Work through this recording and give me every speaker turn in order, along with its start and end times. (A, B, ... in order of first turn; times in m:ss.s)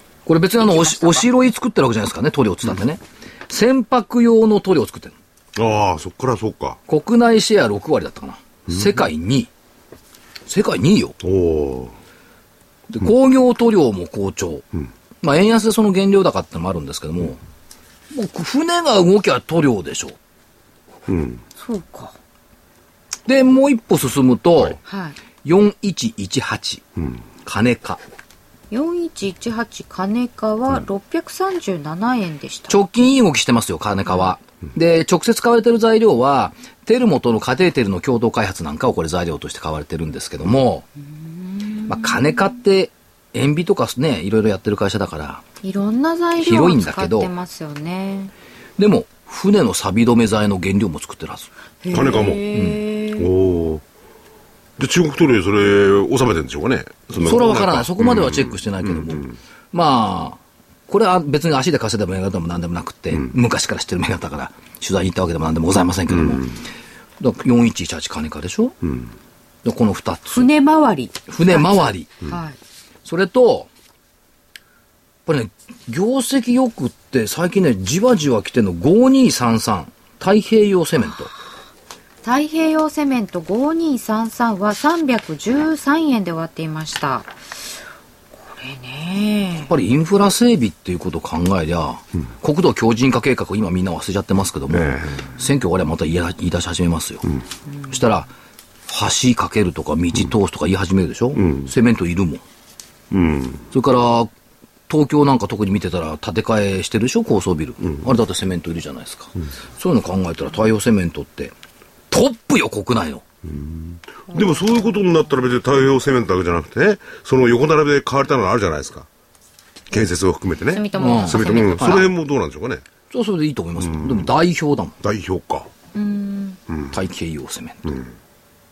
0:00.2-0:05.2 A
0:00.6-0:01.3 B
0:05.6-0:06.8 C
0:06.9-0:09.5 A
0:10.4-0:11.2 A
0:11.2-0:11.9 C
0:12.9-0:14.6 A
0:15.2-0:17.4 A
0:18.1-0:20.2 A
0:21.1-0:21.4 C
0:21.6-0:22.1 B
0:23.3-0:24.8 A
0:24.8-0:25.2 B
0:25.4-0:26.8 A
0:27.4-0:28.0 A
0:28.7-0:32.8 B
0:32.7-0:40.8 A
0:41.2-0:42.3 B
0:41.8-0:45.4 A
0:45.6-0:48.3 B
0:46.4-0:47.3 A
0:48.8-0:51.5 A
0:51.8-0:53.3 B
0:51.9-0:52.5 C
0:52.5-0:52.8 A
0:53.2-0:53.8 C
0:54.8-0:59.3 C
0:57.2-1:06.6 A
1:07.2-1:08.8 A
1:09.6-1:10.5 A
1:10.3-1:12.6 B
1:11.3-1:12.1 A
1:13.0-1:13.7 A
1:15.2-1:21.3 A
1:22.2-1:27.3 B
1:28.4-1:29.7 B
1:29.6-1:37.3 A
1:34.7-1:35.2 C
1:37.9-1:38.3 A
1:38.9-1:42.4 A
1:41.4-1:41.7 C
1:43.1-1:43.7 C
1:43.7-1:44.3 A
1:44.9-1:51.5 A
1:52.1-1:53.2 A
1:53.4-1:59.1 C
1:59.9-2:02.8 C
2:00.7-2:02.0 B
2:01.0-2:02.1 A
2:03.1-2:05.0 A
2:03.8-2:04.3 C
2:05.0-2:05.7 C
2:05.9-2:06.6 B
2:06.7-2:06.9 C
2:06.9-2:08.0 A